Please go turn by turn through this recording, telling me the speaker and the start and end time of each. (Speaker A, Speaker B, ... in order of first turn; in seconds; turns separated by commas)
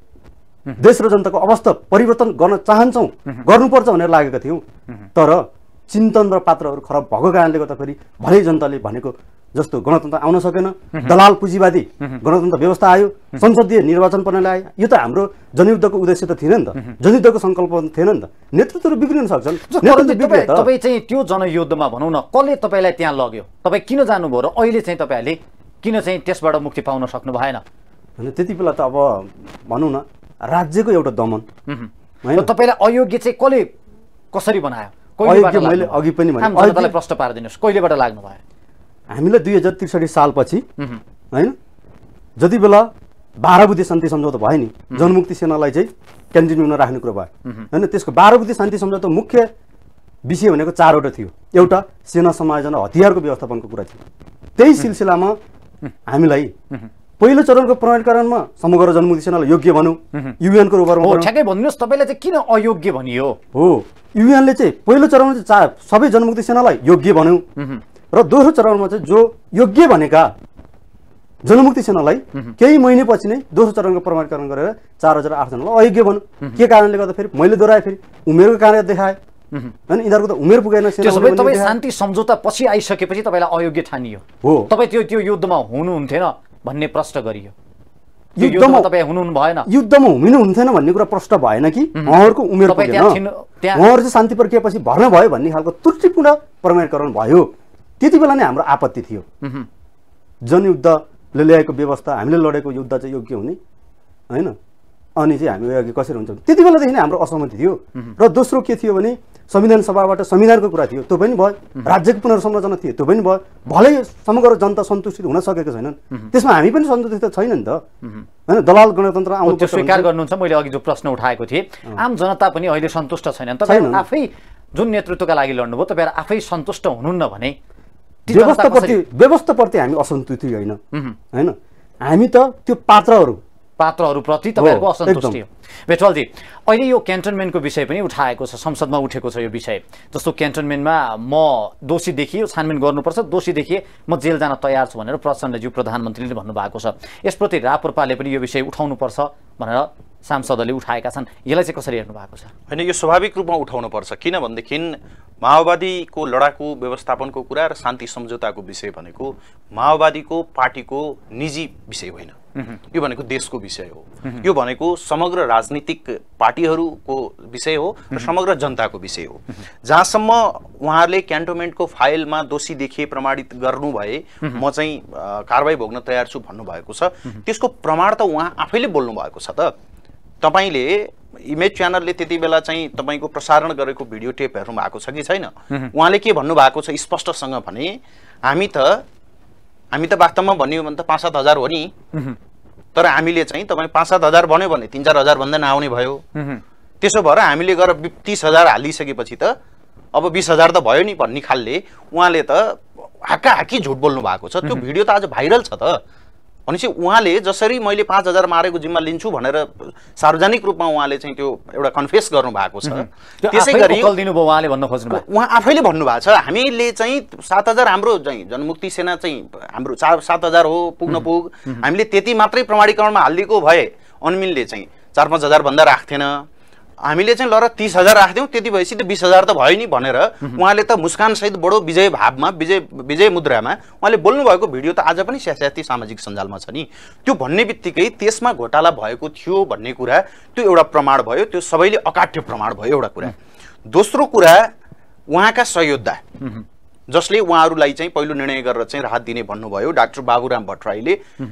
Speaker A: 0.8-4.6, Speaker A: 5.1-20.7, Speaker B: 19.7-27.6, Speaker A: 28.2-31.5, Speaker B: 31.7-33.7, Speaker A: 32.2-32.5, Speaker B: 34.3-38.4, Speaker A: 35.2-37.0, Speaker A: 39.1-40.6, Speaker A: 42.4-49.5, Speaker A: 50.2-54.0, Speaker A: 54.6-55.4, Speaker A: 56.0-56.5, Speaker A: 57.2-61.3, Speaker B: 61.0-63.4, Speaker A: 63.5-67.4, Speaker B: 67.6-67.8, Speaker A: 68.1-70.3, Speaker A: 71.4-79.2, Speaker A: 79.9-81.8, Speaker B: 81.0-87.5, Speaker A: 84.4-84.7, Speaker A: 88.3-88.9, Speaker B: 88.4-89.7, Speaker A: 89.7-93.2, Speaker B: 92.0-93.8, Speaker A: 93.7-99.2, Speaker B: 99.4-99.7, Speaker A: 100.4-103.6, Speaker A: 104.3-104.5, Speaker A: 105.2-117.8, Speaker A: 118.5-120.1, Speaker B: 119.5-127.6, Speaker A: 123.6-124.0, Speaker A: 128.3-130.8, Speaker B: 128.3-129.0, Speaker A: 131.3-133.4, Speaker B: 133.8-152.5, Speaker A: 134.6-135.4, Speaker C: 152.7-162.3, Speaker C: 162.9-179.7, Speaker C: 180.4-189.0, Speaker C: 189.9-191.9, Speaker C: 192.9-196.2, Speaker B: 196.3-196.6, Speaker C: 197.0-199.5, Speaker C: 200.1-206.0, Speaker C: 206.7-214.1, Speaker B: 212.9-215.2, Speaker C: 215.1-226.4, Speaker C: 227.0-243.3, Speaker C: 243.9-244.7, Speaker C: 245.3-246.2, Speaker C: 247.1-251.2